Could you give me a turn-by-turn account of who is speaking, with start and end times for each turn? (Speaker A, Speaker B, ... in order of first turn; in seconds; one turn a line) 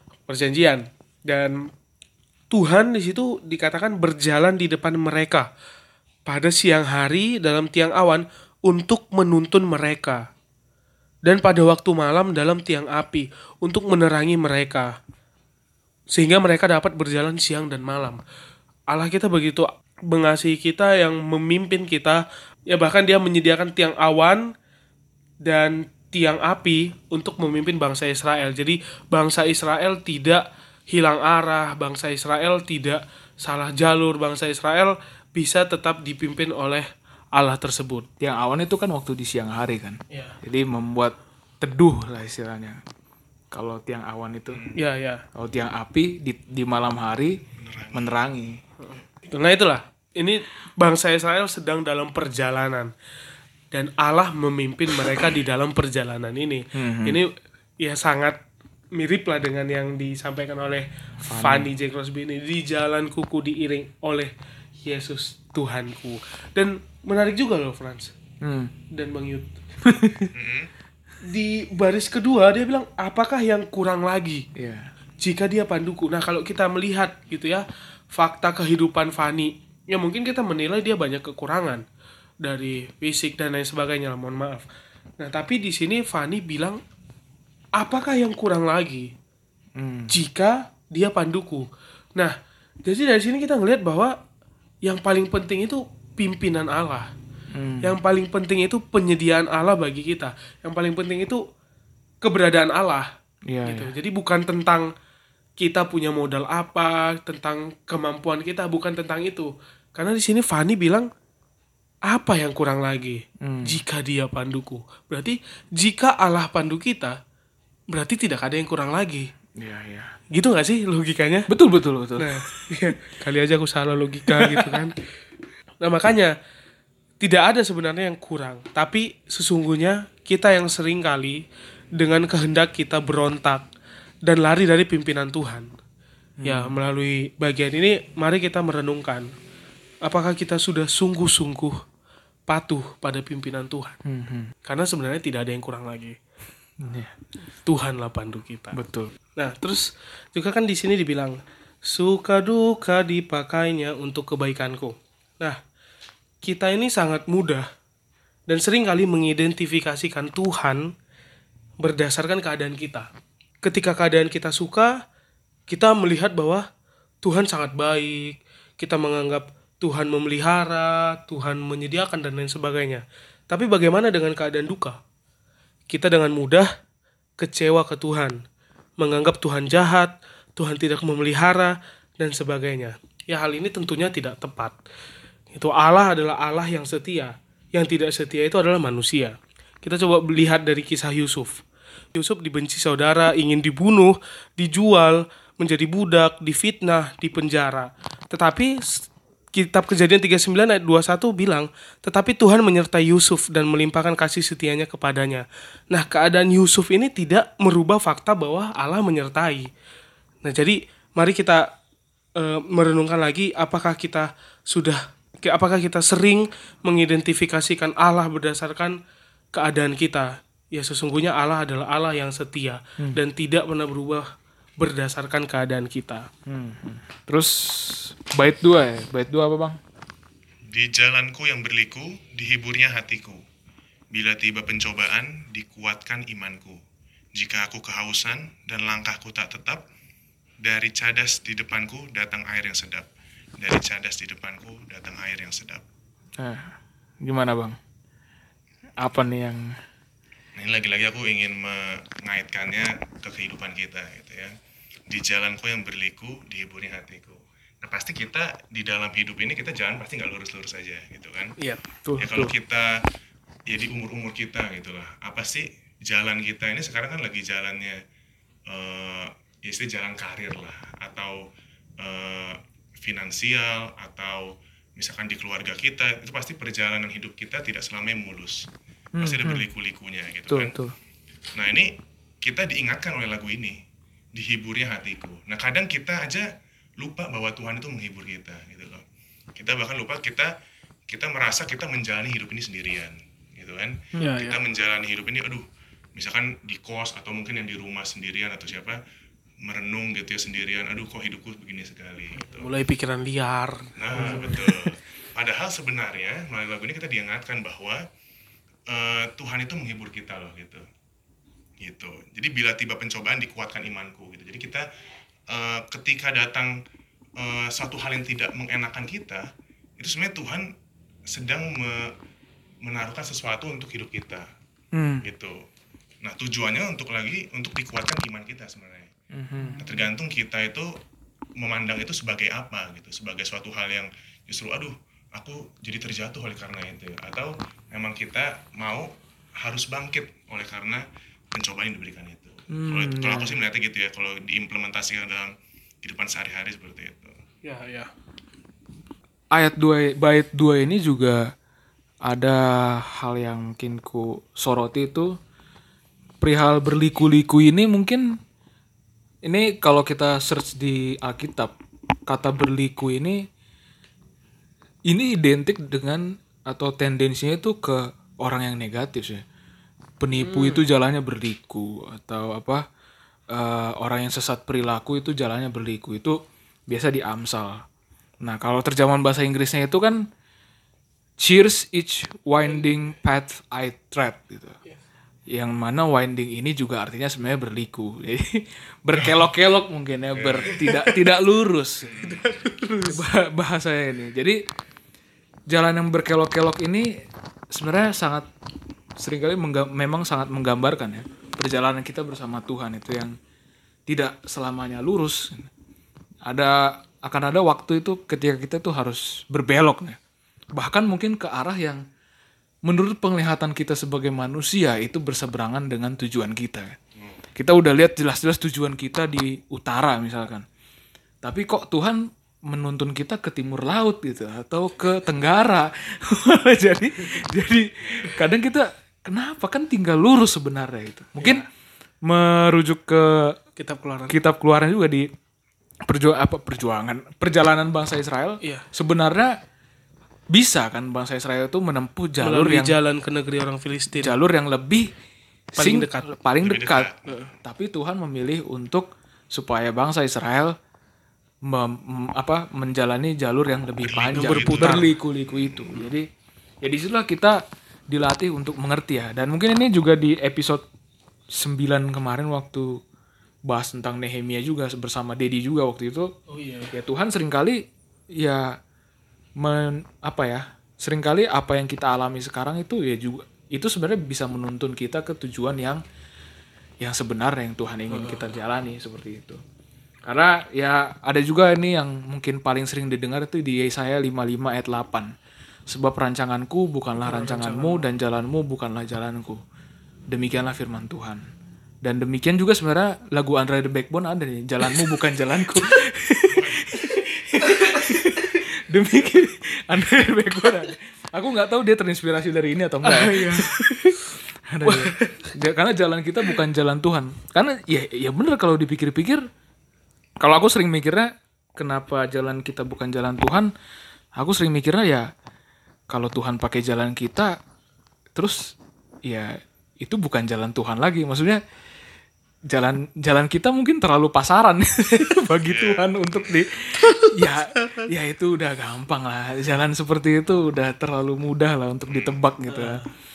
Speaker A: 0.3-1.7
Speaker A: 2.5-5.5
Speaker A: 6.3-10.2
Speaker A: 11.2-14.9
Speaker A: 16.1-18.2
Speaker A: 18.9-24.5
Speaker A: 25.4-38.1
Speaker B: 38.2-42.8
Speaker A: 40.1-40.4
Speaker B: 43.5-44.6
Speaker C: 44.5-44.8
Speaker A: 44.8-45.2
Speaker B: 45.3-47.4
Speaker C: 47.6-48.1
Speaker B: 47.9-48.6
Speaker A: 48.8-52.9
Speaker A: 53.7-58.4
Speaker B: 56.7-57.2
Speaker A: 58.9-64.3
Speaker B: 61.2-61.7
Speaker A: 64.8-68.1
Speaker B: 68.4-68.7
Speaker A: 68.9-69.6
Speaker B: 69.8-70.3
Speaker C: 70.3-70.7
Speaker A: 71.2-74.5
Speaker B: 74.5-74.9
Speaker A: 75.2-81.8
Speaker A: 82.4-84.7
Speaker A: 85.2-86.8
Speaker A: 87.8-89.1
Speaker B: 89.8-90.1
Speaker A: 90.1-94.2
Speaker A: 94.8-97.1
Speaker B: 97.5-98.0
Speaker A: 97.8-101.4
Speaker A: 102.2-103.1
Speaker B: 103.5-103.9
Speaker A: 103.6-104.9
Speaker A: 105.6-111.1
Speaker A: 112.1-117.2
Speaker B: 113.4-113.8
Speaker A: 117.9-119.3
Speaker B: 119.6-120.2
Speaker A: 120.3-121.5
Speaker B: 121.5-122.7
Speaker A: 122.2-124.9
Speaker B: 124.3-124.7
Speaker A: 125.8-126.3
Speaker A: 127.2-131.4
Speaker A: 131.9-133.7
Speaker A: 134.2-135.7
Speaker B: 136.4-136.8
Speaker A: 136.4-139.3
Speaker A: 140.0-141.8
Speaker A: 142.5-143.9
Speaker B: 144.0-144.5
Speaker A: 144.6-146.2
Speaker B: 146.8-147.1
Speaker A: 147.6-148.8
Speaker B: 148.7-149.1
Speaker A: 149.3-155.6
Speaker A: 156.4-157.7
Speaker A: 158.5-160.9
Speaker A: 161.8-163.1
Speaker A: 163.6-165.0
Speaker A: 165.7-166.6
Speaker A: 167.2-175.0
Speaker A: 175.9-176.7
Speaker A: 177.4-178.4
Speaker A: 179.0-184.8
Speaker A: 185.5-191.6
Speaker A: 192.1-209.7
Speaker A: 210.4-211.7
Speaker A: 212.4-219.0
Speaker A: 219.5-224.3
Speaker A: 224.8-226.3
Speaker B: 226.4-229.8
Speaker C: 230.7-233.4
Speaker C: 234.1-236.8
Speaker C: 237.3-239.8
Speaker C: 240.6-243.1
Speaker C: 243.6-245.8
Speaker B: 246.4-247.8
Speaker B: 249.0-249.8
Speaker C: 250.6-254.5
Speaker C: 255.1-261.5
Speaker B: 262.0-262.5
Speaker C: 262.2-262.9
Speaker C: 263.7-268.0
Speaker C: 268.7-271.4
Speaker C: 272.0-278.6
Speaker B: 279.2-279.6
Speaker C: 279.2-280.7
Speaker B: 280.5-280.9
Speaker C: 281.5-281.9
Speaker C: 282.4-283.8
Speaker C: 284.3-286.5
Speaker C: 287.0-289.0
Speaker C: 289.6-290.5
Speaker C: 291.1-295.6
Speaker A: 294.2-294.6
Speaker C: 296.1-299.0
Speaker C: 299.6-302.7
Speaker A: 302.4-304.6
Speaker C: 303.9-308.0
Speaker B: 304.1-304.7
Speaker C: 308.9-310.8
Speaker C: 311.8-314.8
Speaker C: 315.5-316.7
Speaker C: 317.4-319.4
Speaker C: 320.0-320.7
Speaker C: 321.3-322.1
Speaker C: 322.8-324.4
Speaker B: 324.9-325.2
Speaker C: 325.2-325.6
Speaker C: 326.2-329.1
Speaker B: 329.3-329.9
Speaker C: 329.8-330.9
Speaker C: 331.6-339.1
Speaker C: 339.6-341.0
Speaker C: 341.5-345.5
Speaker B: 342.7-343.6
Speaker C: 346.0-347.3
Speaker A: 347.6-348.1
Speaker B: 349.5-351.5
Speaker B: 352.2-355.3
Speaker B: 356.4-358.4
Speaker B: 359.4-361.7
Speaker B: 362.3-363.4
Speaker B: 365.1-369.4
Speaker B: 370.2-372.8
Speaker A: 370.3-370.8
Speaker B: 373.5-376.4
Speaker B: 376.9-377.8
Speaker B: 378.4-380.3
Speaker B: 381.4-384.8
Speaker B: 385.5-392.2
Speaker C: 390.3-390.7
Speaker A: 390.7-391.1
Speaker C: 392.0-392.5
Speaker A: 392.2-393.2
Speaker B: 393.1-394.6
Speaker B: 395.7-397.1
Speaker B: 397.7-398.5
Speaker B: 399.2-403.3
Speaker B: 404.1-405.7
Speaker B: 406.4-410.2
Speaker B: 410.7-412.0
Speaker B: 412.9-417.0
Speaker B: 417.6-420.6
Speaker B: 421.4-431.6
Speaker A: 431.4-431.7
Speaker B: 432.2-433.6
Speaker A: 433.8-434.3
Speaker B: 434.3-435.3
Speaker B: 436.0-439.6
Speaker B: 440.5-442.9
Speaker A: 442.4-444.3
Speaker B: 444.1-445.1
Speaker B: 445.7-450.8
Speaker A: 445.8-446.3
Speaker C: 446.6-447.5
Speaker B: 451.6-456.3
Speaker C: 454.0-455.8
Speaker A: 454.3-455.1
Speaker B: 456.8-460.8
Speaker B: 461.5-463.0
Speaker B: 463.7-466.3
Speaker A: 466.5-466.9
Speaker B: 466.9-467.8
Speaker B: 468.3-468.8
Speaker B: 469.6-476.0
Speaker B: 477.0-479.6
Speaker A: 478.1-478.5
Speaker B: 480.2-485.3
Speaker B: 485.9-489.6
Speaker A: 487.2-488.0
Speaker B: 490.3-491.4
Speaker B: 492.0-509.4
Speaker C: 496.5-497.0
Speaker A: 503.0-503.8
Speaker A: 504.8-505.5
Speaker B: 510.4-513.7
Speaker B: 514.4-515.3
Speaker B: 516.1-517.6
Speaker B: 518.3-518.7
Speaker B: 519.2-521.6
Speaker B: 522.7-533.0
Speaker C: 525.6-526.5
Speaker C: 532.1-532.4
Speaker A: 532.7-533.1